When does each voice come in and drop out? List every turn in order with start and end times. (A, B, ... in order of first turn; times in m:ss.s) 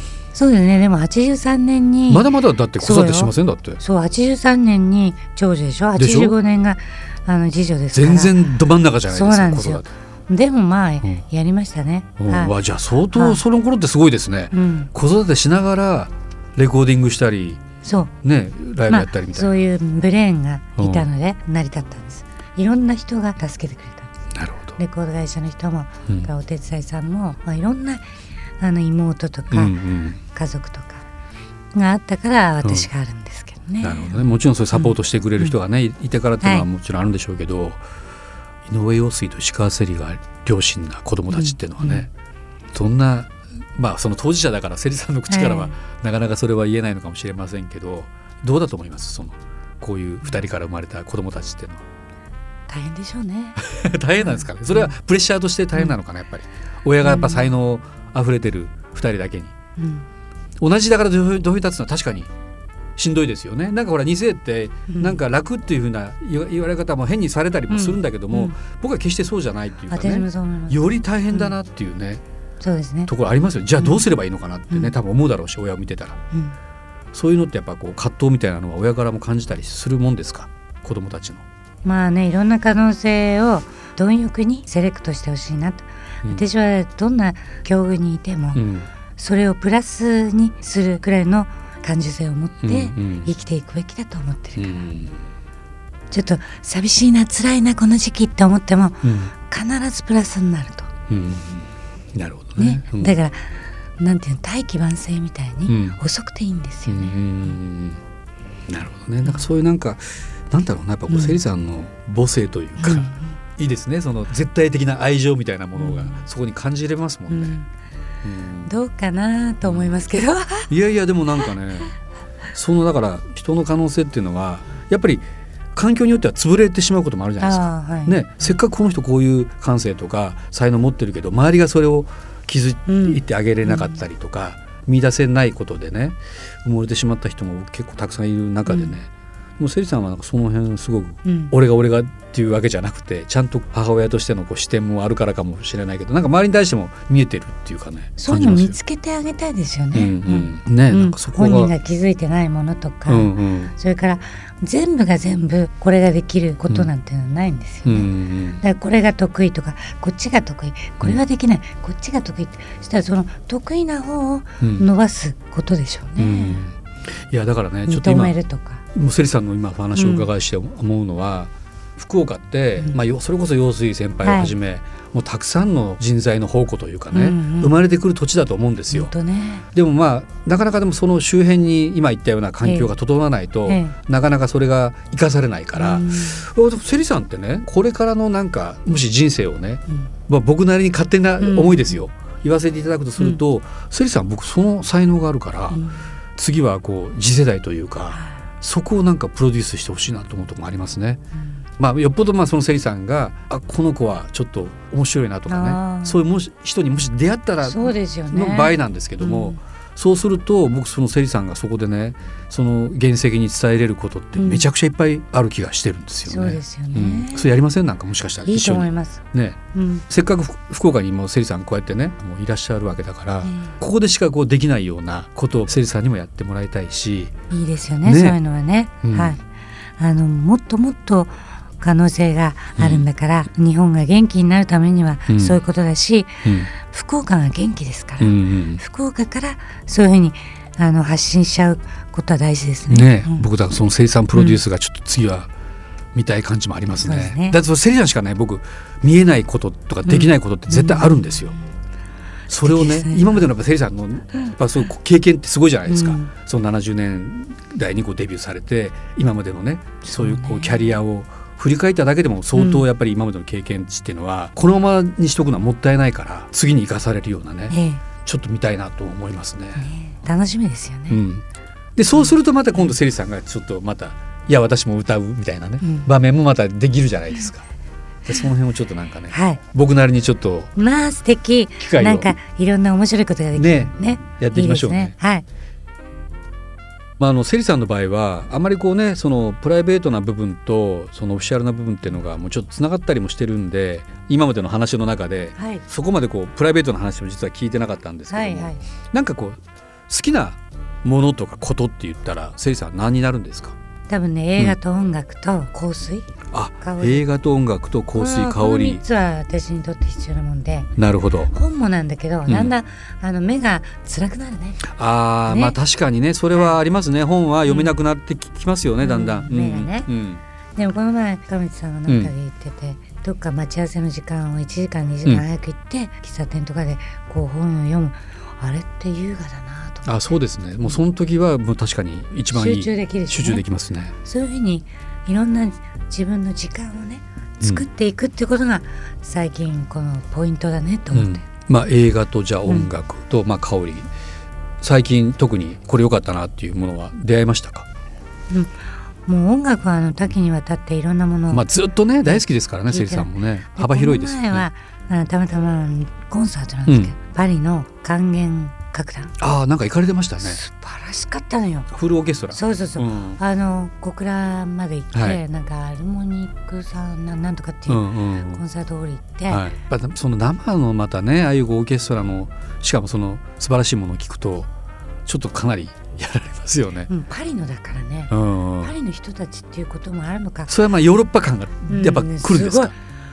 0:00.3-0:08.4 A
0:02.1-0:03.8 B
0:06.0-0:06.4 B
0:07.9-0:09.9 B
0:09.1-0:12.6 A
0:12.2-0:17.6 B
0:13.1-0:13.4 A
0:14.5-0:14.9 A
0:17.8-0:18.1 A
0:18.2-0:19.5 B
0:18.9-0:24.1 A
0:20.8-0:21.1 B
0:24.3-0:24.8 B
0:24.8-0:28.0 A
0:28.6-0:29.8 A
0:29.5-0:30.2 B
0:30.3-0:31.0 A
0:31.7-0:35.5 A
0:32.6-0:32.9 B
0:33.8-0:37.8 B
0:36.4-0:36.7 A
0:38.7-0:42.1 B
0:41.3-0:42.1 A
0:42.7-0:51.8 B
0:45.3-0:45.8 A
0:52.7-0:53.6 A
0:53.6-0:59.5 B
0:54.2-0:55.0 A
0:57.0-0:57.5 A
0:59.8-1:00.1 A
1:00.6-1:02.3 B
1:03.0-1:12.2 B
1:04.9-1:05.2 A
1:07.7-1:08.6 A
1:09.9-1:11.6 A
1:12.6-1:13.1 A
1:13.1-1:16.2 B
1:13.8-1:14.1 A
1:17.1-1:21.4 B
1:21.8-1:28.6 A
1:28.6-1:28.9 B
1:29.2-1:34.8 A
1:32.6-1:33.3 B
1:34.6-1:35.2 B
1:36.1-1:40.9 A
1:39.0-1:39.3 B
1:41.1-1:43.2 B
1:42.6-1:47.2 A
1:45.7-1:46.0 B
1:46.9-1:48.0 B
1:48.7-1:57.6 B
1:51.1-1:51.4 A
1:52.8-1:53.4 A
1:55.8-1:56.2 A
1:57.3-1:57.7 A
1:58.2-1:58.7 B
1:58.6-2:00.7 A
1:59.6-1:59.9 B
2:00.7-2:01.9 B
2:02.5-2:28.8 B
2:07.4-2:08.2 A
2:12.9-2:14.0 A
2:18.7-2:19.0 A
2:21.2-2:21.5 A
2:28.2-2:38.1 A
2:29.9-2:31.7 B
2:33.1-2:33.7 B
2:37.9-2:38.6 B
2:38.6-2:46.6 A
2:44.6-2:44.9 B
2:46.2-2:46.8 B
2:47.3-2:48.4 B
2:47.9-2:48.8 A
2:48.9-2:59.1 B
2:50.0-2:50.3 A
2:54.2-2:54.5 A
2:57.1-2:57.8 A
2:58.9-2:59.6 A
2:59.7-3:15.8 B
3:02.6-3:03.0 A
3:03.7-3:04.0 A
3:05.8-3:06.5 A
3:11.4-3:12.0 A
3:15.7-3:16.1 A
3:16.4-3:21.2 B
3:18.1-3:18.4 A
3:21.8-3:47.3 B
3:25.5-3:26.3 A
3:27.6-3:29.6 A
3:34.4-3:34.7 A
3:36.3-3:37.5 A
3:38.5-3:39.2 A
3:39.7-3:40.0 A
3:43.4-3:43.8 A
3:47.5-3:49.4 A
3:48.0-3:48.4 B
3:49.0-3:49.4 B
3:50.0-4:03.5 A
3:52.8-3:53.1 B
3:55.3-3:55.6 B
3:56.4-3:56.7 B
3:58.2-3:58.8 B
4:02.9-4:05.5 B
4:04.4-4:04.6 A
4:06.1-4:11.6 B
4:06.9-4:07.6 A
4:10.1-4:11.7 A
4:12.5-4:29.9 B
4:12.6-4:13.5 A
4:15.9-4:16.3 A
4:20.0-4:21.0 A
4:22.6-4:22.9 A
4:27.7-4:28.0 A
4:29.8-4:31.2 A
4:31.1-4:31.4 B
4:32.0-4:37.7 B
4:32.2-4:32.9 A
4:35.8-4:36.1 A
4:38.3-4:40.7 B
4:39.3-4:39.6 A
4:40.8-4:45.4 A
4:41.8-4:42.4 B
4:43.6-4:45.2 B
4:47.2-5:03.8 B
4:55.6-4:55.8 A
4:58.3-4:58.8 A
5:04.1-5:07.2 A
5:06.5-5:09.0 B
5:08.2-5:10.9 A
5:11.0-5:11.5 B
5:11.5-5:14.9 A
5:12.5-5:12.7 B
5:14.9-5:20.4 B
5:15.5-5:15.8 A
5:17.7-5:17.9 A
5:19.0-5:20.1 A
5:20.8-5:30.1 A
5:22.1-5:22.3 B
5:30.0-5:34.1 B
5:32.5-5:33.6 A
5:34.2-5:41.4 A
5:41.1-5:44.1 B
5:44.8-5:47.9 B
5:48.5-5:51.7 A
5:51.5-5:54.7 B
5:52.2-5:59.4 A
5:56.9-5:57.1 B
5:59.4-6:00.6 B
6:00.4-6:01.9 A
6:01.9-6:03.4 B
6:02.5-6:09.7 A
6:05.1-6:05.4 B
6:07.9-6:08.6 B
6:09.5-6:14.7 B
6:15.3-6:17.1 B
6:17.1-6:20.7 A
6:18.3-6:19.0 B
6:20.7-6:22.9 B
6:21.9-6:23.0 A